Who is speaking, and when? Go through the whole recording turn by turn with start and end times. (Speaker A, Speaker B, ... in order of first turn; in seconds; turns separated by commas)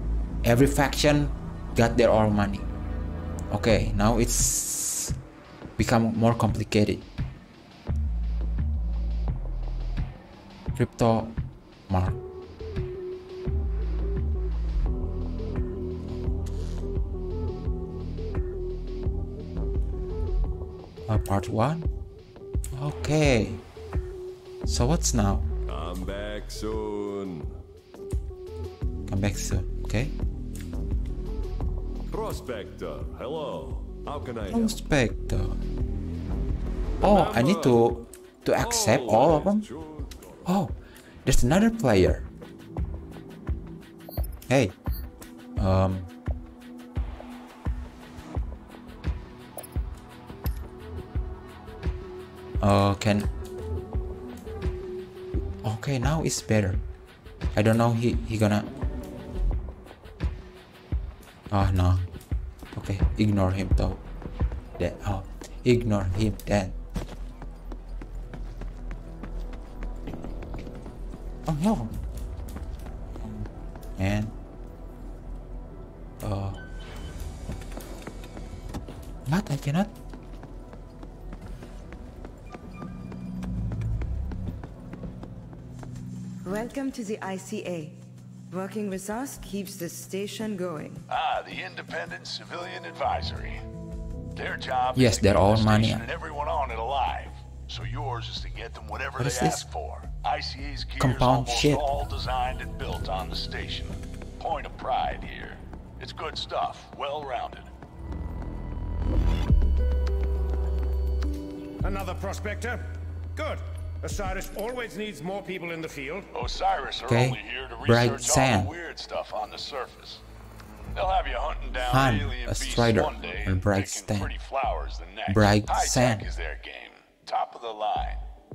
Speaker A: 0.4-2.7, Speaker A: 3.5-5.2, Speaker A: 5.8-7.1, Speaker A: 10.8-11.4, Speaker A: 11.9-12.2, Speaker A: 21.1-21.9, Speaker A: 22.7-23.6, Speaker A: 24.7-25.5, Speaker B: 25.7-27.6, Speaker A: 29.1-30.1, Speaker B: 32.1-34.8, Speaker A: 34.5-35.6, Speaker B: 37.0-38.0, Speaker A: 37.0-39.7, Speaker B: 38.6-40.5, Speaker A: 40.5-42.3, Speaker A: 44.5-44.8, Speaker A: 45.6-46.1, Speaker A: 52.6-53.3, Speaker A: 55.6-56.8, Speaker A: 57.5-58.7, Speaker A: 61.5-62.1, Speaker A: 62.8-64.0, Speaker A: 64.8-66.8, Speaker A: 71.5-72.0, Speaker A: 73.2-74.3, Speaker A: 76.2-76.6, Speaker A: 79.3-80.0, Speaker C: 86.4-91.0, Speaker D: 91.1-93.6, Speaker D: 94.3-107.7, Speaker A: 95.0-96.0, Speaker A: 99.2-99.6, Speaker A: 101.0-101.8, Speaker E: 111.8-116.3, Speaker D: 116.3-120.2, Speaker A: 117.1-118.7, Speaker D: 120.9-128.2, Speaker A: 121.8-124.3, Speaker A: 125.3-126.3